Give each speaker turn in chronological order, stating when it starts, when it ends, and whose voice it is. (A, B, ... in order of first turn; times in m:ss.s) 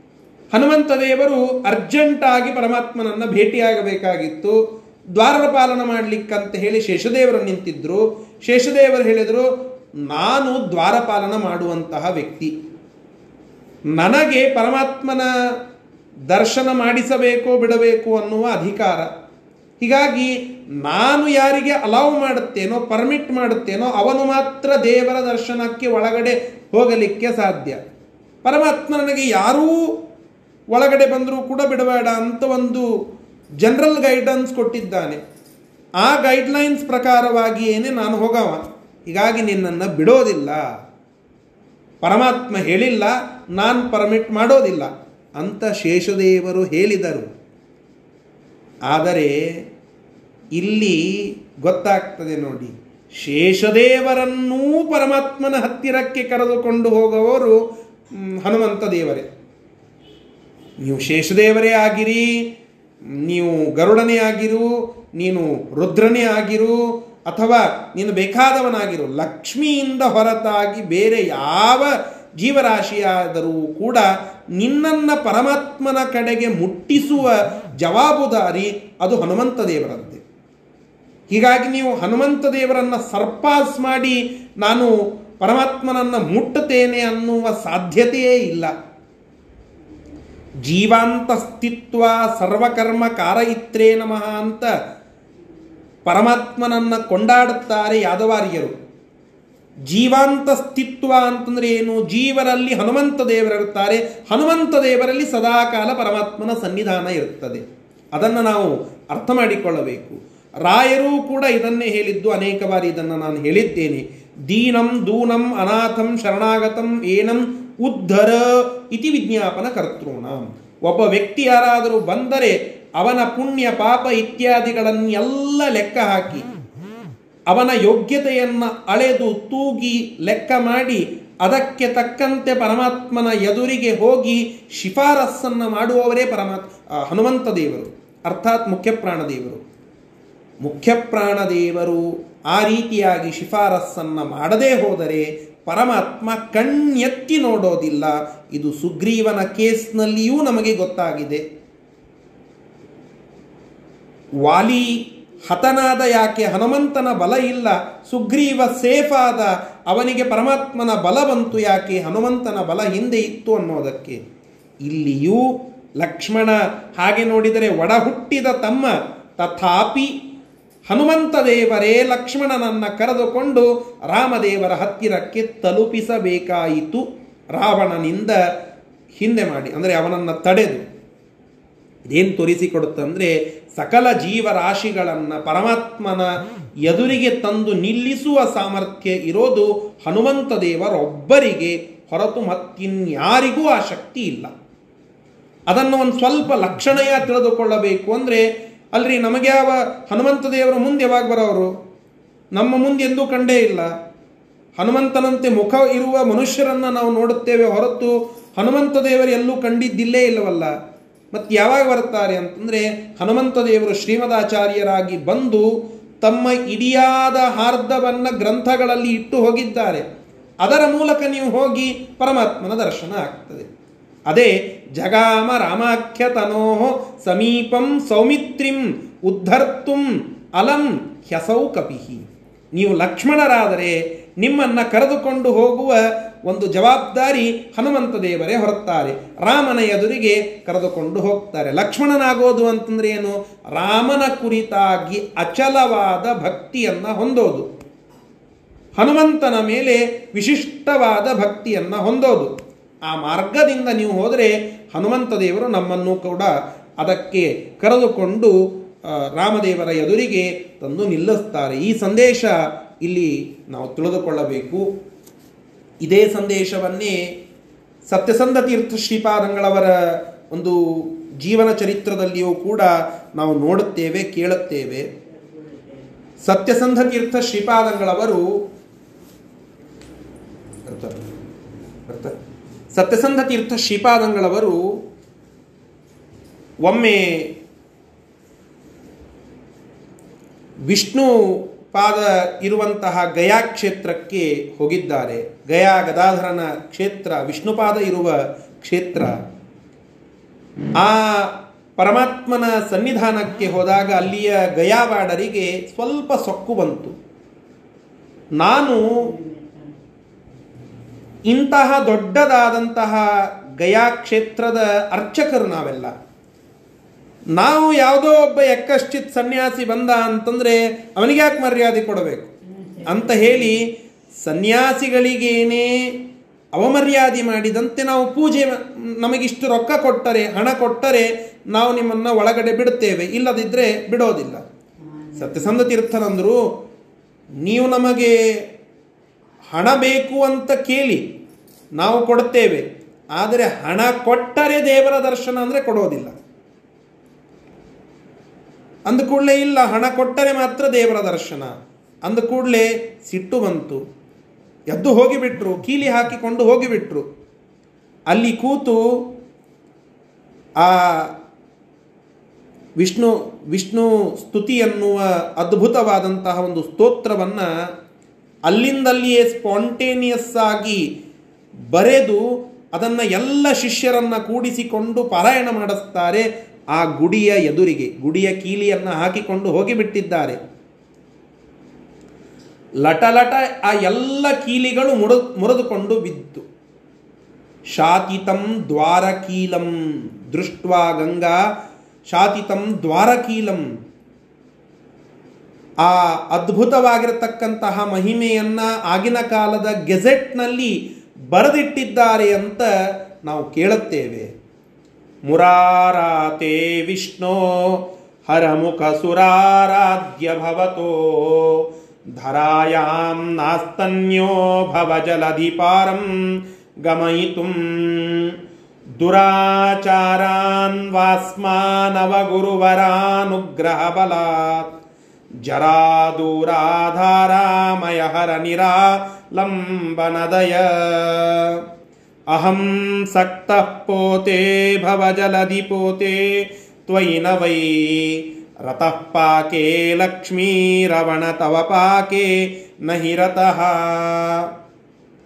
0:00.5-0:04.6 A
0:05.2-0:09.5 A
0:10.1-0:12.5 A
0:14.0-0:15.3 A
0:16.3-0:19.1 A
0:19.8-0:27.8 A
0:28.4-0:29.8 A
0:30.7-0:32.9 A
0:33.6-0:35.2 A
0:36.0-0:40.6 A
0:42.0-0:47.3 A
0:48.9-0:49.4 A
0:50.6-0:57.6 A
0:58.2-0:59.3 A
1:00.8-1:02.4 A
1:03.2-1:20.2 A
1:21.3-1:28.7 A
1:30.6-1:34.7 A
1:36.1-1:38.8 A
1:39.9-1:47.6 A
1:48.1-2:06.5 A
2:07.5-2:19.6 A
2:20.6-2:31.4 A
2:34.4-2:44.2 A
2:44.8-2:50.1 A
2:50.9-2:58.4 A
2:59.2-3:00.8 A
3:02.1-3:06.3 A
3:06.8-3:14.5 A
3:15.7-3:18.4 A
3:19.0-3:21.7 A
3:22.6-3:23.9 A
3:24.8-3:30.7 A
3:31.3-3:35.7 A
3:36.2-3:40.1 A
3:40.6-3:43.7 A
3:44.3-4:07.7 A
4:09.0-4:12.5 A
4:13.1-4:22.5 A
4:23.0-4:24.9 A
4:26.0-4:27.2 A
4:28.1-4:29.9 A
4:30.5-4:35.1 A
4:36.4-4:38.4 A
4:40.9-4:41.3 A
4:42.1-4:42.4 A
4:42.9-4:44.8 A
4:46.8-4:47.5 A
4:50.9-4:59.4 A
5:01.0-5:07.2 A
5:08.6-5:09.4 A
5:11.5-5:13.2 A
5:13.8-5:16.1 A
5:17.6-5:23.9 A
5:24.4-5:26.2 A
5:26.8-5:34.6 A
5:35.3-5:36.6 A
5:37.6-5:38.4 A
5:39.7-5:41.2 A
5:42.0-5:46.3 A
5:49.1-5:51.7 A
5:52.2-5:54.0 A
5:54.9-5:57.2 A
5:58.3-5:59.3 A
6:00.8-6:01.3 A
6:03.0-6:07.7 A
6:08.7-6:11.0 A
6:11.9-6:20.6 A
6:23.0-6:26.6 A
6:28.0-6:29.9 A
6:30.5-6:31.6 A
6:32.3-6:33.8 A
6:36.0-6:41.0 A
6:41.5-6:42.9 A
6:43.4-6:44.5 A
6:45.5-6:58.5 A
6:59.2-7:04.9 A
7:05.6-7:11.8 A
7:12.5-7:24.7 A